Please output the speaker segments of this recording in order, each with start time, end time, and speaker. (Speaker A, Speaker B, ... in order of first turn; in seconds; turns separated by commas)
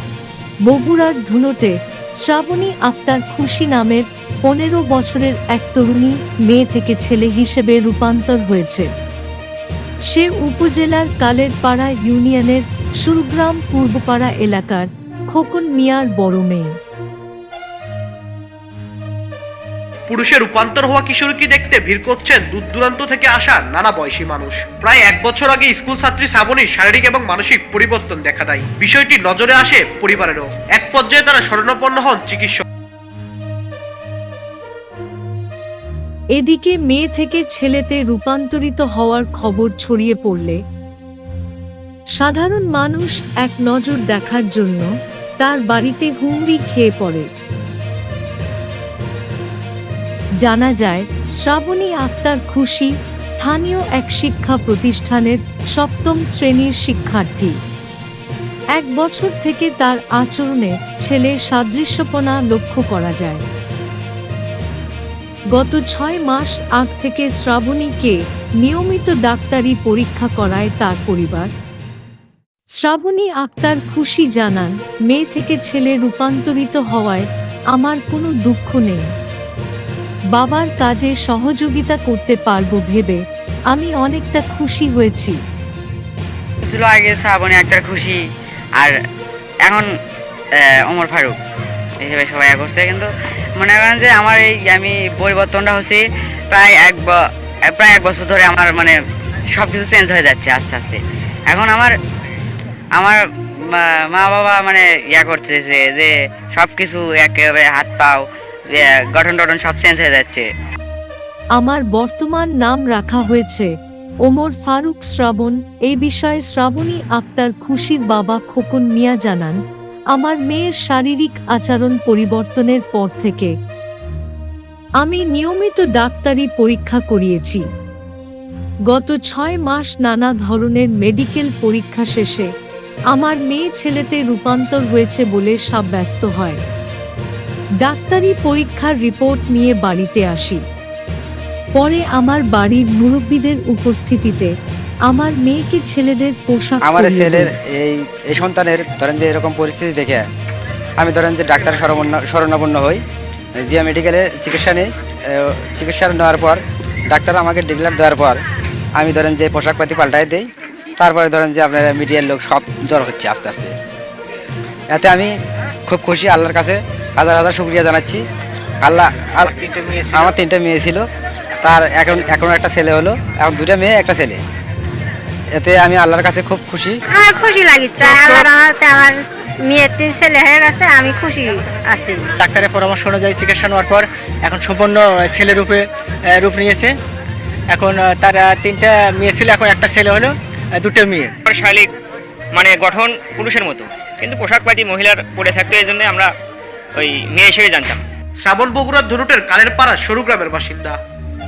Speaker A: 0.7-8.9, Speaker A: 10.1-16.7, Speaker B: 20.1-32.6, Speaker A: 36.4-40.6, Speaker A: 42.2-44.9, Speaker A: 45.4-47.3, Speaker A: 50.4-57.6, Speaker A: 58.8-63.4, Speaker A: 65.5-71.5, Speaker A: 72.8-79.1, Speaker A: 80.3-85.4, Speaker C: 86.6-88.2, Speaker C: 90.6-91.3, Speaker C: 92.0-97.2, Speaker C: 97.7-99.0, Speaker C: 99.5-101.9, Speaker C: 103.7-110.5, Speaker A: 111.6-113.7, Speaker A: 114.3-119.6, Speaker A: 120.1-123.5, Speaker A: 125.0-127.7, Speaker A: 128.9-132.5, Speaker A: 133.1-136.6, Speaker A: 137.8-140.6, Speaker A: 141.8-144.5, Speaker A: 145.1-147.5, Speaker D: 146.8-150.2, Speaker D: 151.0-153.0, Speaker D: 153.6-158.4, Speaker D: 159.0-160.5, Speaker D: 161.0-163.8, Speaker D: 164.9-165.3, Speaker D: 165.9-168.2, Speaker D: 168.8-169.6, Speaker E: 169.5-170.3, Speaker D: 170.1-171.0, Speaker D: 171.6-174.4, Speaker D: 175.6-177.0, Speaker F: 177.1-182.3, Speaker E: 182.4-186.9, Speaker E: 187.7-191.3, Speaker G: 191.5-191.9, Speaker G: 192.5-196.3, Speaker G: 197.0-198.0, Speaker B: 198.4-201.0